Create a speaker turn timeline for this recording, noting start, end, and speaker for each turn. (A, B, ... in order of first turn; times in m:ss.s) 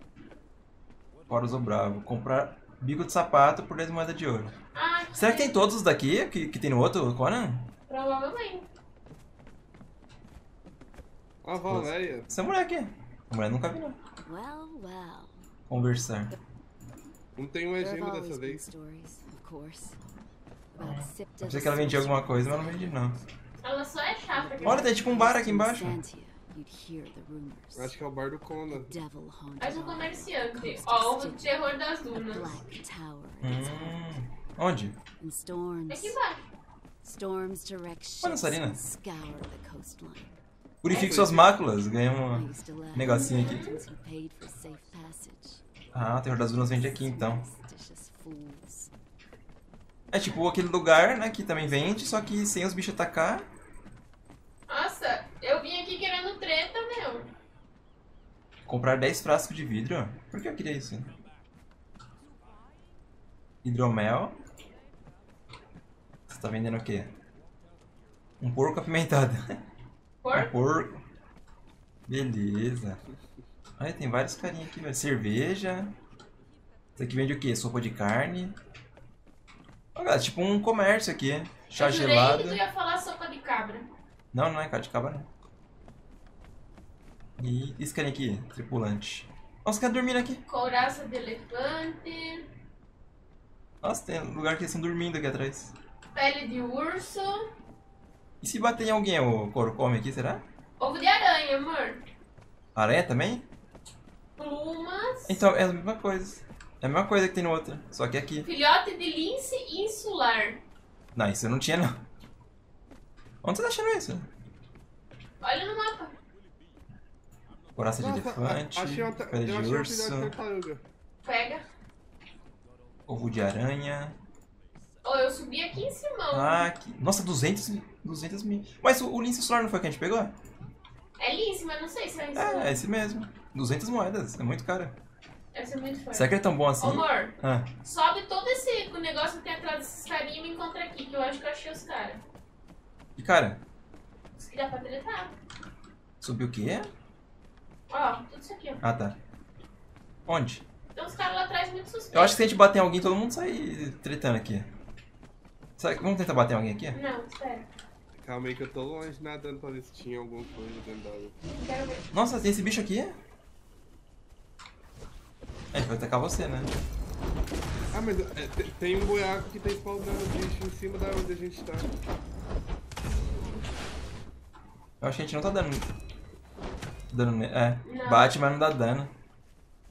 0:01.3-0:04.5 A
0:04.7-0:05.6 B
0:05.2-0:07.7 A
0:07.9-0:08.7 B
0:11.4-0:12.3 C
0:11.7-0:14.0 A
0:14.2-0:15.5 D
0:15.7-0:16.3 A
0:17.4-0:18.7 C
0:17.8-0:20.0 D
0:20.7-0:23.1 D
0:20.8-0:23.2 A
0:23.6-0:24.9 B
0:24.3-0:27.9 D
0:24.6-0:26.0 A
0:27.7-0:28.9 C
0:28.7-0:31.6 D
0:29.6-0:32.7 B
0:32.1-0:34.2 D
0:33.4-0:35.0 A
0:35.2-0:36.2 D
0:35.9-0:36.5 B
0:37.0-0:40.4 D
0:38.2-0:38.8 A
0:40.8-0:43.8 A
0:40.9-0:41.5 B
0:42.3-0:45.7 D
0:43.1-0:43.8 B
0:45.9-0:47.4 A
0:46.3-0:48.9 D
0:50.1-0:53.5 A
0:54.7-0:57.3 B
0:58.6-1:01.1 A
1:03.6-1:04.3 A
1:06.3-1:07.1 A
1:08.4-1:09.4 A
1:10.2-1:10.5 B
1:10.3-1:11.0 A
1:12.1-1:13.0 A
1:13.8-1:15.9 A
1:17.0-1:18.5 A
1:19.9-1:22.6 A
1:21.8-1:23.9 B
1:24.3-1:25.3 A
1:27.4-1:30.4 A
1:30.5-1:32.5 B
1:33.8-1:35.7 A
1:36.1-1:37.4 B
1:38.4-1:40.4 A
1:40.8-1:42.0 B
1:42.7-1:43.5 A
1:44.4-1:45.4 B
1:45.3-1:48.5 A
1:48.4-1:50.6 B
1:51.1-1:52.0 A
1:53.4-1:54.3 A
1:55.4-1:56.1 B
1:57.7-2:00.3 A
1:58.0-2:00.8 C
2:01.2-2:01.6 B
2:03.1-2:04.2 A
2:05.0-2:06.7 B
2:06.3-2:10.3 A
2:11.2-2:12.8 B
2:12.3-2:15.0 A
2:15.5-2:22.2 B
2:16.1-2:17.7 A
2:23.2-2:23.6 A
2:24.4-2:25.3 B
2:26.2-2:26.9 A
2:27.9-2:28.8 B
2:28.8-2:29.2 A
2:30.3-2:30.6 A
2:31.0-2:32.4 B
2:32.1-2:34.7 A
2:35.8-2:37.0 A
2:36.9-2:37.7 B
2:38.2-2:41.3 C
2:41.5-2:42.1 B
2:42.1-2:43.2 A
2:45.7-2:46.7 A
2:47.9-2:51.9 C
2:55.0-2:55.8 A
2:57.1-2:59.1 A
2:57.8-2:58.3 B